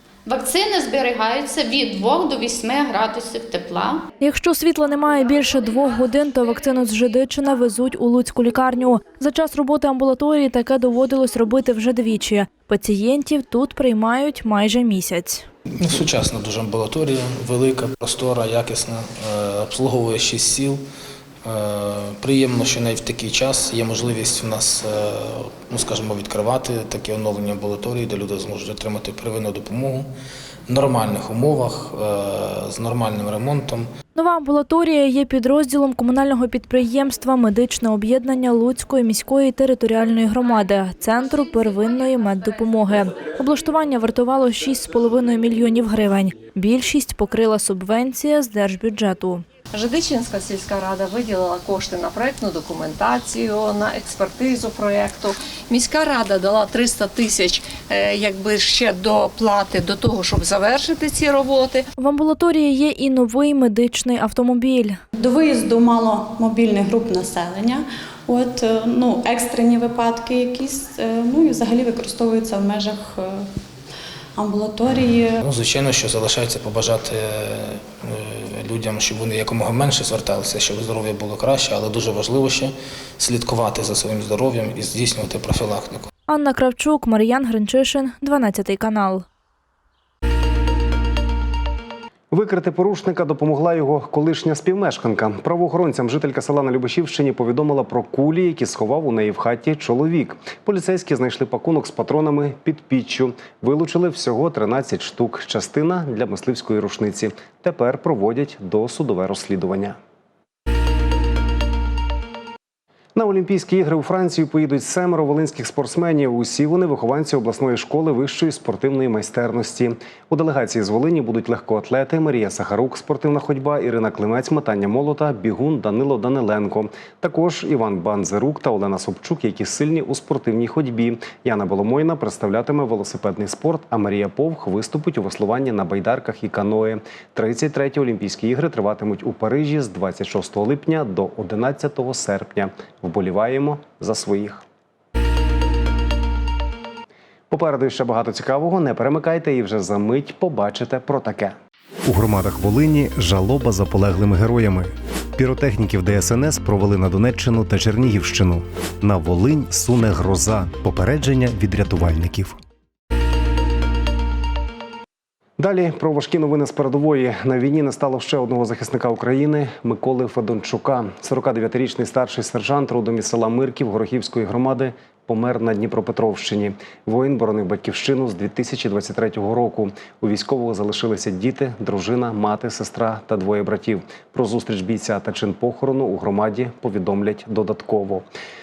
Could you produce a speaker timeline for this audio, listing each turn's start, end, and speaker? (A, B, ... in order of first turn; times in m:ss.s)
0:00.2-0:04.0 A
0:04.2-0:15.4 B
0:15.8-0:20.8 C
0:21.5-0:30.1 C
0:30.7-0:33.8 C
0:34.1-0:49.4 B
0:49.7-1:01.8 D
1:02.0-1:05.0 B
1:05.2-1:13.5 E
1:14.4-1:15.4 E
1:15.4-1:26.0 C
1:26.3-1:29.2 B
1:32.3-1:50.0 F
1:53.2-2:24.6 F
2:27.5-2:31.5 F
2:32.0-2:42.6 F
2:45.6-3:08.2 F